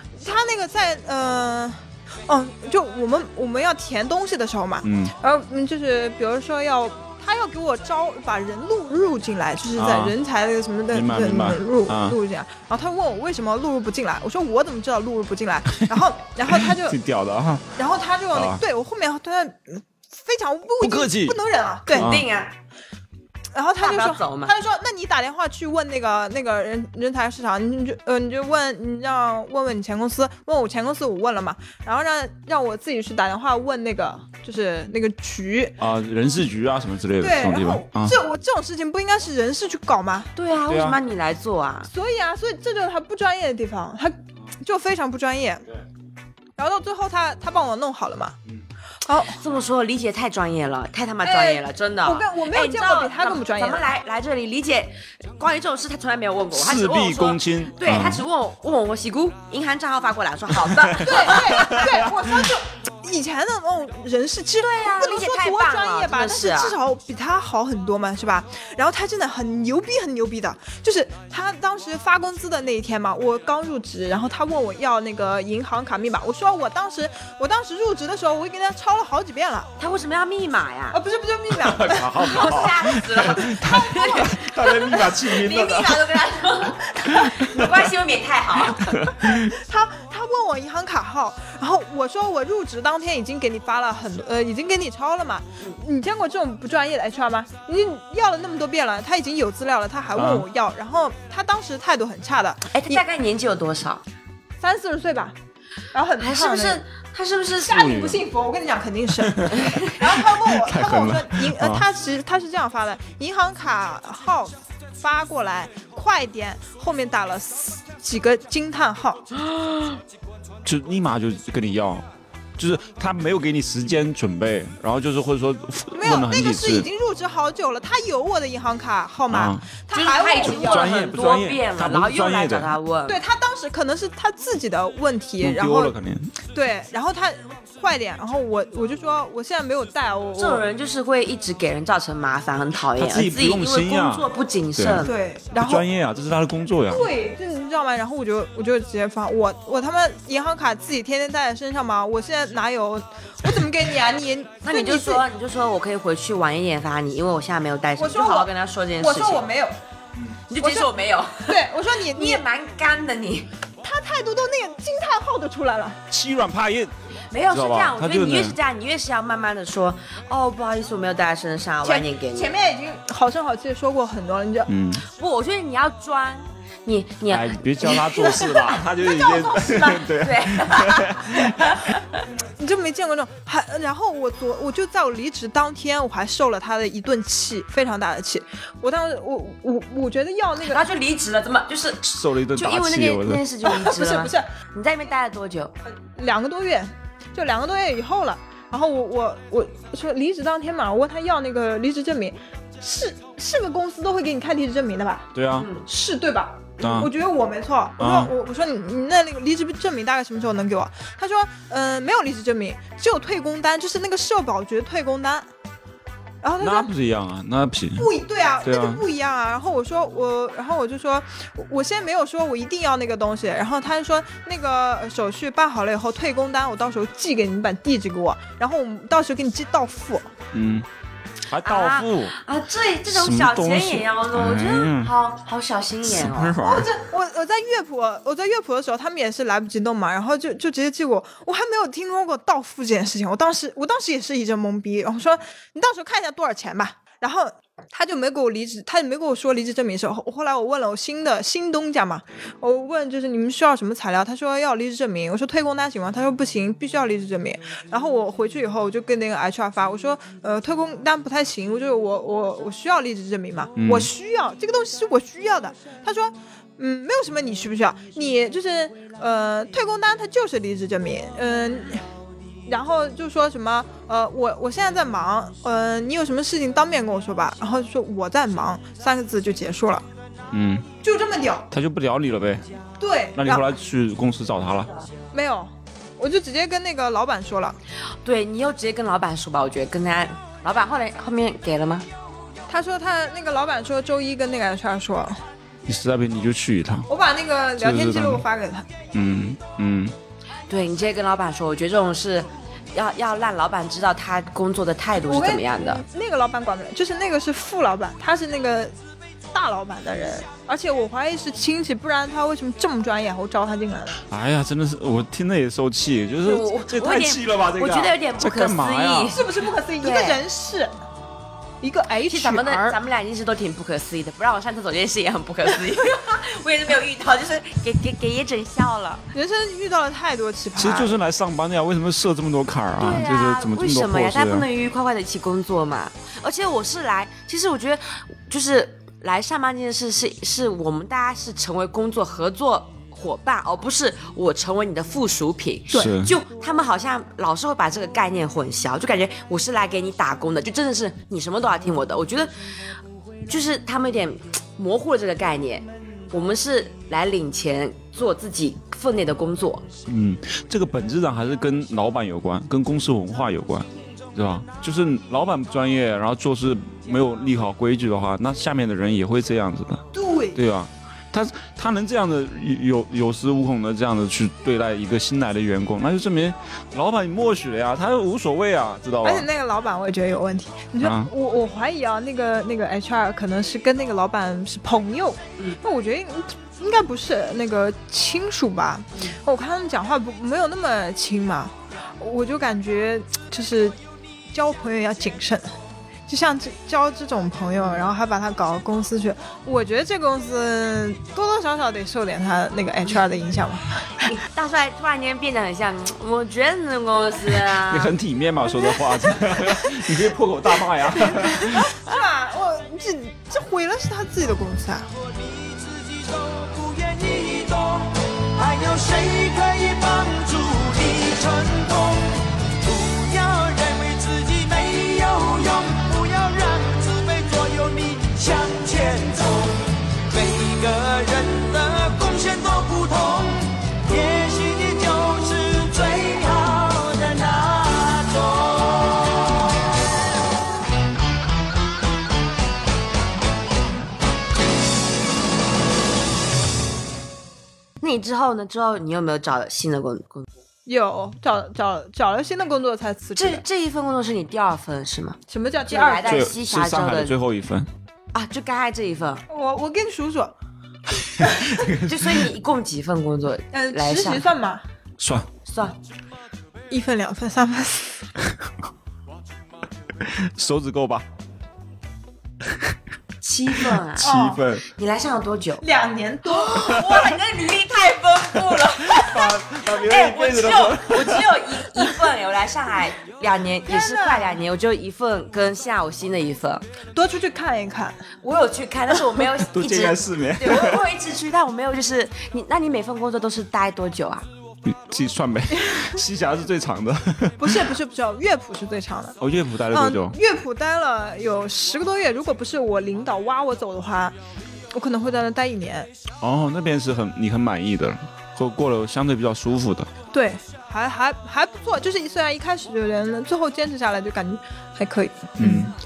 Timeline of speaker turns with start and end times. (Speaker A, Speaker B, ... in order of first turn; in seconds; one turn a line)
Speaker A: 0.2-17.0
Speaker B: 4.8-5.1
Speaker B: 9.8-10.1
Speaker B: 10.9-12.2
Speaker B: 16.5-17.8
Speaker A: 17.8-22.1
Speaker B: 18.3-18.6
Speaker B: 20.8-21.4
Speaker C: 21.9-22.5
Speaker B: 21.9-22.2
Speaker A: 23.5-35.8
Speaker C: 23.8-24.5
Speaker B: 35.8-38.2
Speaker A: 37.2-40.3
Speaker C: 40.3-41.9
Speaker B: 40.7-41.0
Speaker A: 41.9-45.6
Speaker A: 46.6-48.4
Speaker A: 49.0-49.4
Speaker C: 49.2-61.9
Speaker A: 51.2-53.8
Speaker B: 56.5-58.2
Speaker B: 60.6-62.5
Speaker A: 61.0-79.7
Speaker C: 64.6-66.8
Speaker C: 79.8-81.0
Speaker A: 80.9-82.7
Speaker B: 81.5-86.0
Speaker C: 82.2-89.0
Speaker A: 83.4-84.3
Speaker B: 87.1-87.8
Speaker B: 88.8-89.5
Speaker A: 89.2-103.0
Speaker B: 100.1-100.5
Speaker C: 102.7-104.0
Speaker A: 104.6-105.3
Speaker A: 105.9-106.8
Speaker C: 106.2-107.8
Speaker A: 107.6-119.2
Speaker B: 107.7-108.2
Speaker B: 109.2-111.8
Speaker C: 109.5-109.9
Speaker B: 120.6-122.0
Speaker B: 122.6-126.9
Speaker A: 125.9-130.9
Speaker B: 129.3-129.6
Speaker C: 129.9-133.2
Speaker B: 130.3-132.7
Speaker A: 133.1-135.9
Speaker B: 135.4-136.3
Speaker A: 136.5-140.6
Speaker C: 140.3-145.1
Speaker B: 142.9-145.0
Speaker A: 145.0-145.8
Speaker B: 145.6-147.1
Speaker A: 146.9-155.2
Speaker C: 154.6-159.4
Speaker A: 158.0-159.7
Speaker C: 160.5-163.5
Speaker A: 160.6-160.9
Speaker A: 161.5-162.4
Speaker A: 163.8-166.0
Speaker B: 166.1-166.9
Speaker C: 167.3-172.5
Speaker B: 167.5-168.6
Speaker A: 171.8-174.7
Speaker B: 174.7-175.0
Speaker C: 175.1-178.5
Speaker B: 177.3-181.6
Speaker A: 178.2-179.9
Speaker C: 179.5-182.2
Speaker A: 182.6-190.8
Speaker C: 190.6-195.7
Speaker B: 192.1-193.4
Speaker A: 193.6-194.4
Speaker A: 196.0-205.3
Speaker B: 205.3-205.7
Speaker C: 205.6-205.8
Speaker A: 205.8-215.5
Speaker B: 206.8-207.1
Speaker B: 208.0-208.3
Speaker A: 216.4-216.9
Speaker B: 216.6-218.1
Speaker A: 218.0-230.3
Speaker B: 218.6-219.0
Speaker B: 230.5-230.9
Speaker B: 231.5-232.3
Speaker C: 231.6-236.6
Speaker B: 233.1-235.1
Speaker B: 236.0-236.9
Speaker A: 236.6-272.0
Speaker B: 263.8-264.1
Speaker A: 272.6-280.0
Speaker B: 280.5-280.9
Speaker A: 281.0-281.7
Speaker B: 281.7-282.7
Speaker A: 283.0-283.6
Speaker B: 283.4-284.9
Speaker A: 285.3-287.8
Speaker C: 288.2-292.1
Speaker A: 292.7-295.4
Speaker B: 295.9-297.1
Speaker A: 297.1-298.9
Speaker B: 297.8-298.4
Speaker B: 299.1-300.1
Speaker C: 300.7-306.0
Speaker A: 305.2-308.9
Speaker A: 309.5-314.2
Speaker B: 314.3-319.4
Speaker C: 316.4-319.4
Speaker A: 319.3-320.9
Speaker C: 320.0-320.4
Speaker A: 321.8-323.0
Speaker C: 322.3-329.3
Speaker A: 329.3-331.1
Speaker B: 330.8-334.7
Speaker C: 333.0-352.5
Speaker B: 345.9-346.3
Speaker C: 353.5-359.9
Speaker B: 360.1-370.0
Speaker A: 370.1-370.6
Speaker B: 370.5-379.5
Speaker A: 379.2-394.0
Speaker B: 381.0-381.3
Speaker A: 394.5-395.7
Speaker A: 396.3-404.3
Speaker C: 404.2-408.1
Speaker B: 407.7-411.9
Speaker A: 411.2-415.1
Speaker D: 415.2-439.6
Speaker C: 448.0-450.5
Speaker A: 450.9-453.6
Speaker C: 453.4-457.3
Speaker A: 455.5-456.4
Speaker B: 456.2-457.9
Speaker C: 458.3-459.4
Speaker A: 459.5-460.5
Speaker B: 461.4-462.5
Speaker A: 461.4-461.7
Speaker C: 462.1-464.5
Speaker A: 463.7-464.8
Speaker B: 465.2-465.5
Speaker C: 465.6-466.0
Speaker A: 466.9-468.2
Speaker B: 470.2-471.2
Speaker C: 473.4-474.3
Speaker B: 473.9-474.8
Speaker A: 474.2-474.6
Speaker C: 474.9-475.8
Speaker A: 475.8-477.1
Speaker C: 476.4-486.8
Speaker B: 478.7-482.0
Speaker A: 483.9-484.6
Speaker A: 487.1-488.3
Speaker C: 488.4-494.4
Speaker B: 489.6-491.0
Speaker B: 494.8-497.9
Speaker A: 497.6-499.4
Speaker B: 499.4-500.4
Speaker A: 499.9-504.3
Speaker A: 504.9-506.1
Speaker B: 506.4-510.1
Speaker A: 510.3-515.9
Speaker B: 515.6-515.9